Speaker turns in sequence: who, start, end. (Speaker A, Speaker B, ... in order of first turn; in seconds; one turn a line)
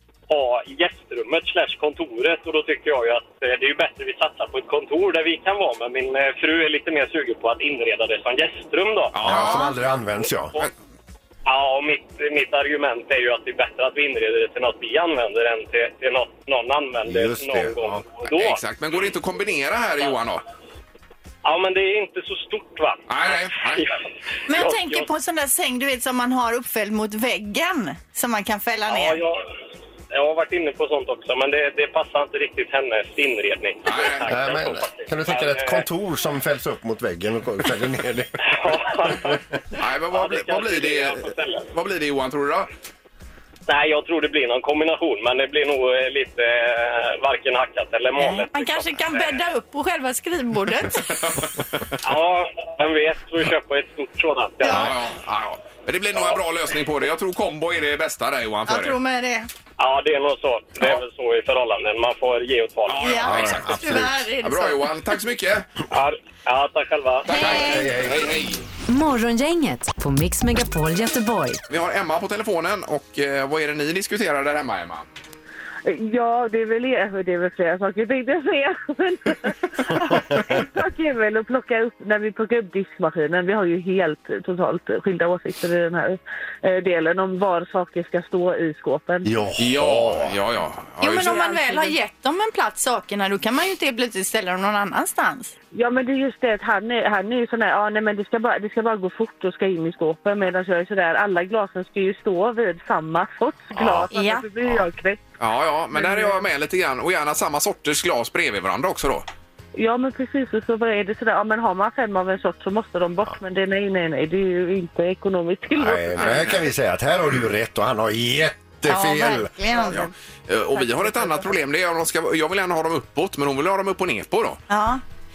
Speaker A: 0.3-9.2
Speaker B: 9.1-9.7
Speaker C: 9.2-10.7
Speaker A: 11.4-18.6
Speaker C: 17.1-18.0
Speaker B: 18.3-20.4
Speaker A: 21.4-23.9
Speaker B: 23.1-23.9
Speaker D: 24.5-29.2
Speaker A: 24.5-25.1
Speaker A: 28.9-29.4
Speaker A: 30.1-35.8
Speaker B: 33.8-34.3
Speaker C: 34.2-38.4
Speaker A: 38.4-39.4
Speaker C: 39.1-39.3
Speaker B: 39.8-42.7
Speaker A: 40.1-41.7
Speaker A: 43.7-49.2
Speaker D: 48.1-51.2
Speaker A: 52.0-54.9
Speaker D: 54.6-54.9
Speaker B: 54.6-59.0
Speaker D: 58.7-59.5
Speaker A: 59.8-63.2
Speaker B: 62.9-65.7
Speaker D: 63.0-64.9
Speaker C: 63.2-64.1
Speaker A: 65.9-67.3
Speaker B: 67.2-68.7
Speaker D: 67.3-67.9
Speaker C: 67.5-68.2
Speaker E: 68.9-71.6
Speaker B: 71.7-75.1
Speaker F: 75.8-89.3
Speaker C: 80.1-80.6
Speaker C: 89.2-90.4
Speaker B: 89.6-91.4
Speaker D: 91.0-95.5
Speaker F: 91.2-92.0
Speaker F: 95.7-105.2
Speaker D: 104.1-104.4
Speaker B: 105.4-109.2
Speaker F: 105.9-106.5
Speaker F: 109.8-116.5
Speaker C: 115.7-119.5
Speaker B: 116.2-116.7
Speaker D: 118.8-120.1
Speaker B: 119.9-124.6
Speaker D: 124.7-125.0